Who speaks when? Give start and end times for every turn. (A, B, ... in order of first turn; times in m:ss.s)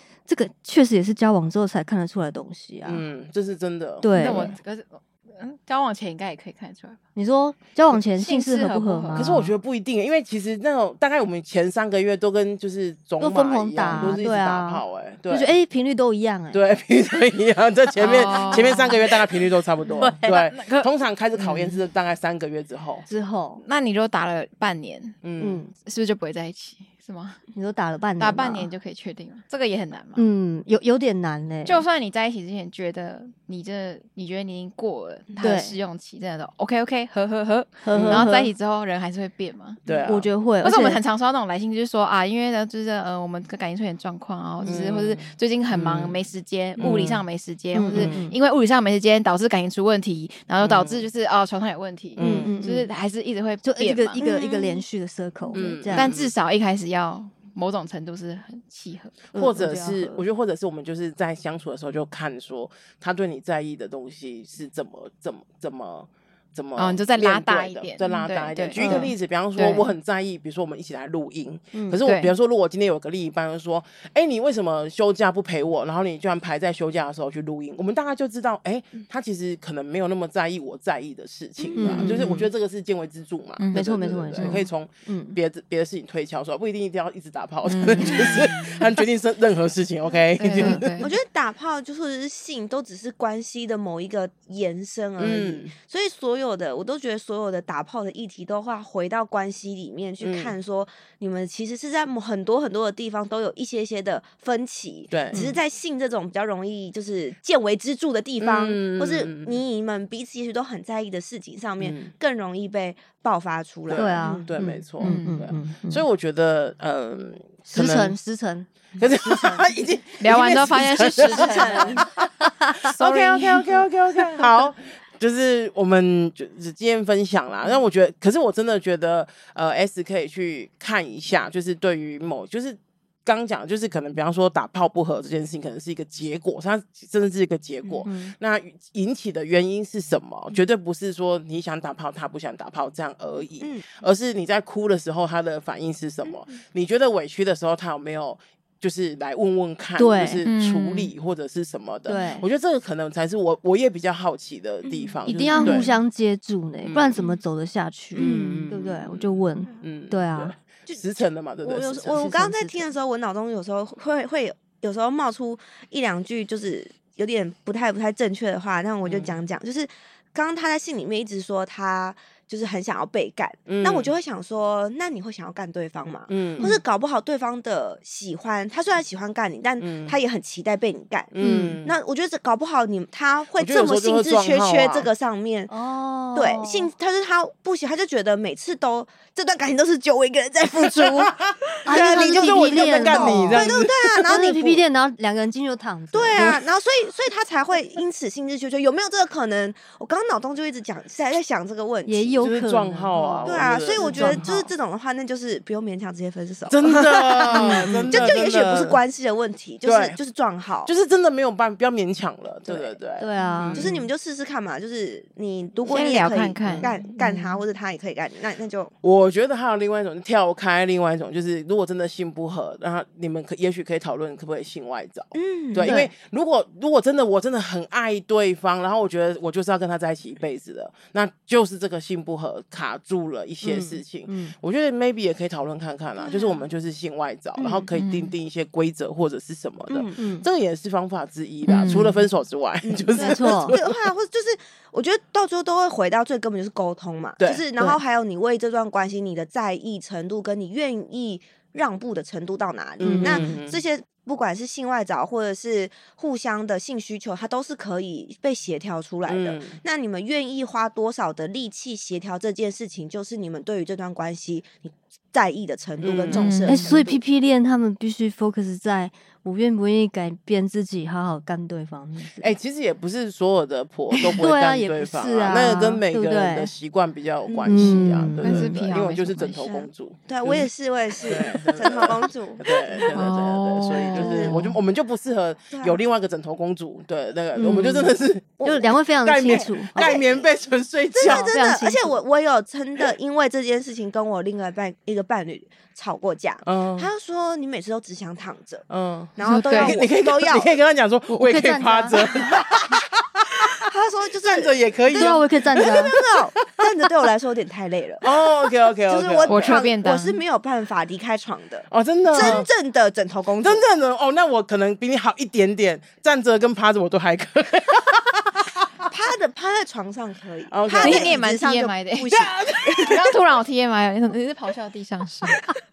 0:00.3-0:03.0 A
0:02.8-0:04.5 B
0:04.0-0:04.5 A
0:04.1-0:07.0 C
0:07.2-0:09.4 A
0:07.9-0:09.5 C
0:09.1-0:15.5 B
0:13.2-0:16.6 A
0:16.5-0:23.0 B
0:18.0-0:19.0 C
0:18.1-0:18.9 A
0:20.0-0:20.3 A
0:20.2-0:20.9 C
0:21.4-0:21.7 C
0:23.1-0:23.6 A
0:23.6-0:25.2 C
0:25.2-0:25.6 B
0:25.4-0:25.7 A
0:25.8-0:27.4 C
0:27.5-0:28.7 A
0:28.2-0:30.2 C
0:30.2-0:31.8 A
0:31.6-0:39.8 C
0:35.4-0:35.8 A
0:37.8-0:38.5 A
0:37.9-0:38.3 B
0:39.8-0:40.3 B
0:40.1-0:41.0 A
0:40.6-0:54.3 C
0:44.6-0:46.2 B
0:46.8-0:47.2 B
0:47.7-0:48.4 A
0:47.9-0:48.2 B
0:50.6-0:51.1 B
0:52.2-0:52.6 B
0:52.2-0:52.9 A
0:53.6-0:56.1 A
0:54.2-0:54.8 D
0:55.5-0:56.3 B
0:55.9-0:59.2 C
0:59.3-1:00.2 A
0:59.3-1:30.9 B
1:06.8-1:09.9 C
1:08.8-1:09.1 A
1:11.7-1:12.0 A
1:12.0-1:12.3 C
1:21.6-1:22.1 D
1:21.8-1:22.3 A
1:21.9-1:22.5 C
1:23.7-1:25.4 A
1:24.3-1:24.6 C
1:27.6-1:28.9 C
1:30.4-1:31.1 C
1:30.6-1:30.9 A
1:31.0-1:54.5 D
1:35.2-1:35.7 B
1:40.2-1:40.5 B
1:45.1-1:45.5 B
1:45.3-1:45.6 A
1:48.4-1:49.6 B
1:51.8-1:52.1 B
1:53.9-1:58.2 B
1:53.9-1:56.0 A
1:55.0-1:55.4 C
1:57.7-1:58.7 A
1:59.0-2:02.1 B
1:59.2-1:59.6 A
2:00.2-2:02.0 C
2:01.0-2:02.1 D
2:02.5-2:02.8 A
2:02.8-2:35.9 B
2:02.8-2:03.8 C
2:18.0-2:18.3 A
2:23.6-2:23.9 D
2:26.2-2:26.5 D
2:30.0-2:30.4 A
2:30.4-2:31.1 C
2:32.1-2:32.4 A
2:34.8-2:35.9 D
2:35.2-2:40.5 A
2:36.8-2:37.2 B
2:38.1-2:42.3 B
2:38.2-2:38.7 D
2:41.6-3:05.7 D
2:42.1-2:42.9 A
2:49.0-2:49.4 B
2:53.7-2:54.1 B
2:56.3-2:56.8 B
2:59.8-3:00.2 B
3:01.3-3:01.9 B
3:01.4-3:01.8 A
3:03.6-3:05.1 B
3:05.7-3:06.9 A
3:06.3-3:14.8 D
3:10.8-3:14.4 B
3:11.8-3:13.7 A
3:14.3-3:16.4 A
3:16.1-3:22.4 D
3:22.0-3:24.7 A
3:22.4-3:24.5 B
3:23.4-3:30.9 D
3:26.7-3:29.0 B
3:27.5-3:28.3 A
3:29.8-3:30.2 B
3:30.8-3:34.1 B
3:32.6-3:33.0 D
3:33.2-3:33.9 A
3:33.7-3:38.9 D
3:35.8-3:37.4 C
3:39.0-4:04.0 B
3:45.3-3:46.0 D
3:53.6-3:54.5 A
3:56.2-3:56.6 D
3:57.6-3:57.8 D
3:57.9-3:58.3 C
3:59.9-4:00.2 D
4:00.2-4:00.4 A
4:01.7-4:02.2 C
4:02.8-4:27.2 D
4:03.1-4:03.8 A
4:13.0-4:13.8 B
4:13.0-4:13.4 A
4:19.2-4:19.8 B
4:26.0-4:26.5 B
4:26.3-4:26.9 C
4:26.6-4:32.5 A
4:32.4-4:40.7 B
4:34.3-4:36.7 A
4:37.5-4:37.9 D
4:37.7-4:38.7 A
4:38.4-4:39.8 C
4:39.6-4:43.2 D
4:41.2-4:51.5 B
4:43.0-4:44.8 C
4:43.9-4:44.6 D
4:45.7-4:46.0 D
4:47.6-4:48.2 D
4:48.6-4:50.1 A
4:49.4-4:50.5 D
4:51.1-5:00.8 D
4:51.2-4:52.2 A
4:56.6-4:57.1 B
4:58.9-5:03.7 B
4:59.4-5:00.0 C
5:01.3-5:02.2 A
5:02.2-5:02.8 D
5:03.8-5:08.3 D
5:04.4-5:06.3 B
5:05.1-5:06.1 A
5:08.2-5:09.8 B
5:09.1-5:13.8 D
5:09.4-5:10.4 C
5:11.9-5:12.7 B
5:13.6-5:18.8 B
5:19.1-5:23.3 D
5:20.7-5:21.4 B
5:21.0-5:22.4 C
5:22.3-5:23.3 B
5:23.0-5:25.7 C